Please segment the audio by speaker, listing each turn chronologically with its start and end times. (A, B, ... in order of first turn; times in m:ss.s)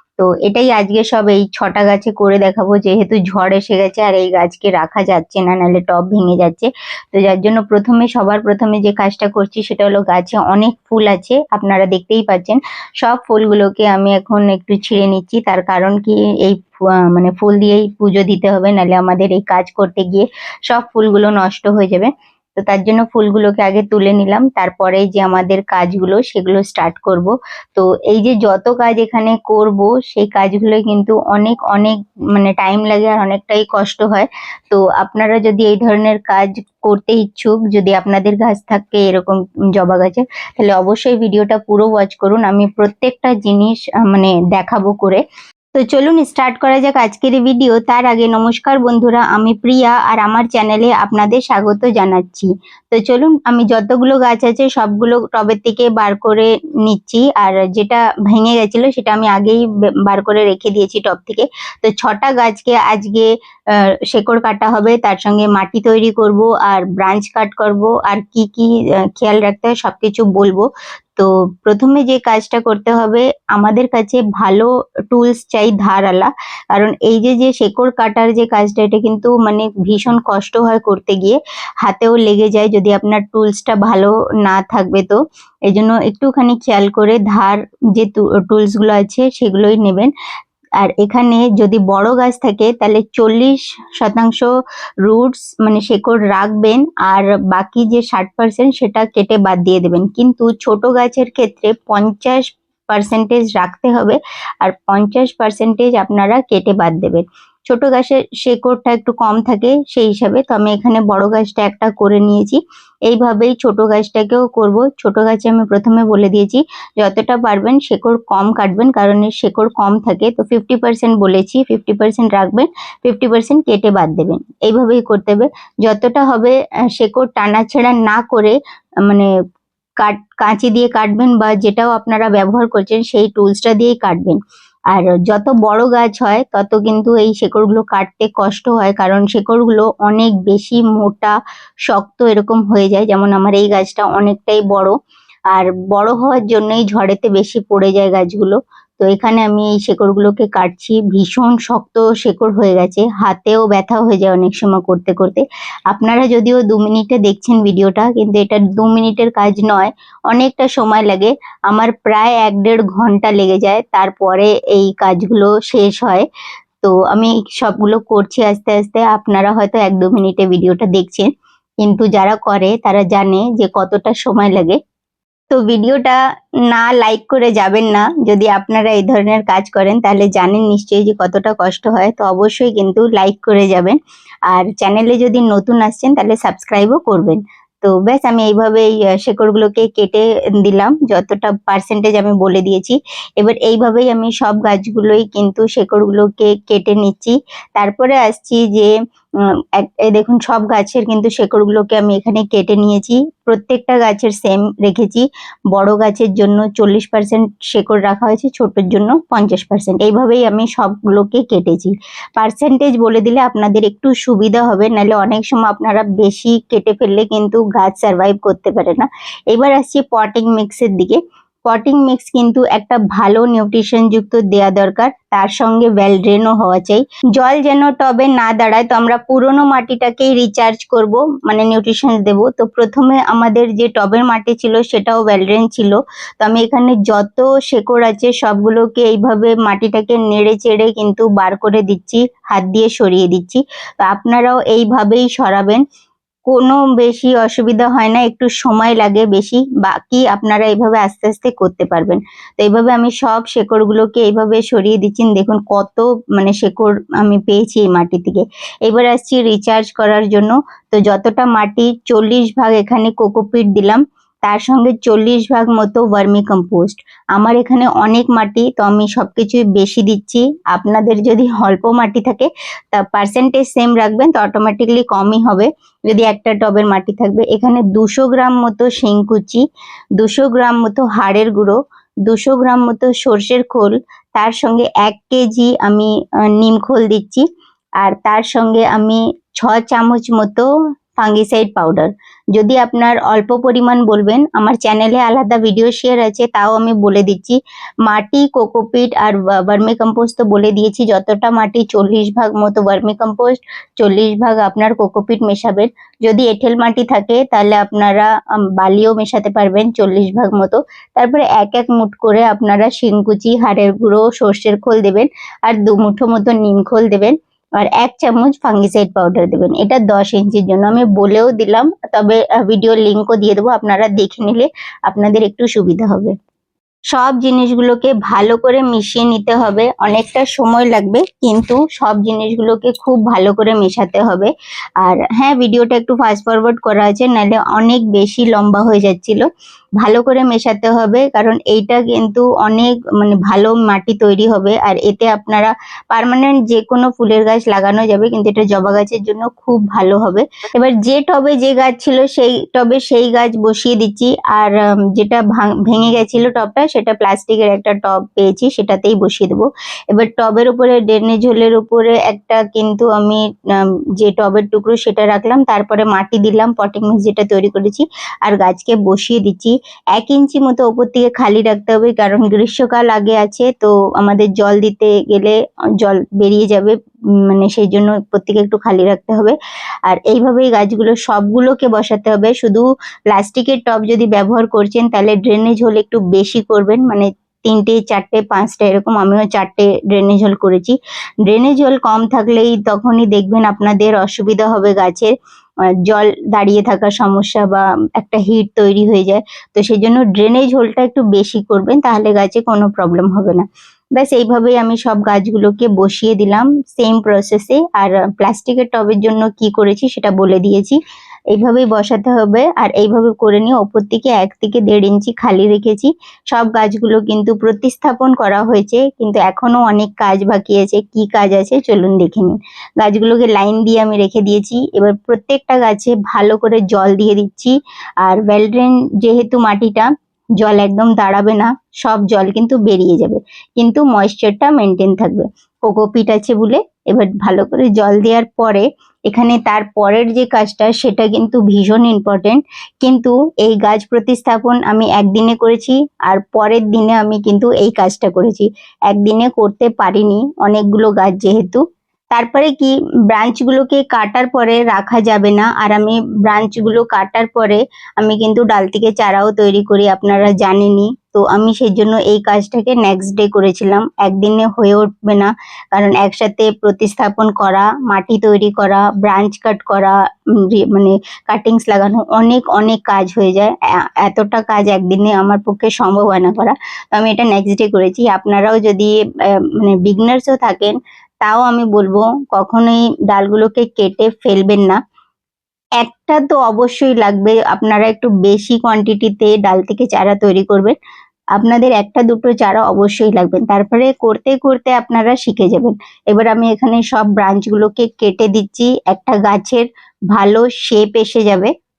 0:00.2-0:16.6 A
0:17.1-0:45.2 A
0:45.7-1:03.3 A
1:04.1-1:10.6 A
1:11.2-1:30.1 A
1:30.8-1:34.5 A
1:35.0-2:08.5 A
2:10.0-2:14.4 A
2:14.9-2:21.3 A
2:21.9-2:24.9 A
2:25.5-2:46.2 A
2:46.8-2:51.3 A
2:51.8-2:54.8 A
2:55.5-2:56.2 A
2:56.7-3:04.0 A
3:04.5-3:18.9 A
3:19.8-4:05.8 A
4:06.5-4:39.6 A
4:40.2-4:47.4 A
4:48.0-4:50.6 A
4:51.2-5:26.3 A
5:27.1-5:39.4 A
5:40.0-6:16.9 A
6:17.5-6:31.0 A
6:31.5-6:35.3 A
6:36.1-6:43.6 A
6:44.2-6:51.0 A
6:51.5-7:10.1 A
7:10.6-7:31.8 A
7:32.3-7:50.1 A
7:50.7-7:59.1 A
7:59.8-8:05.0 A
8:06.0-8:10.9 A
8:11.6-8:21.7 A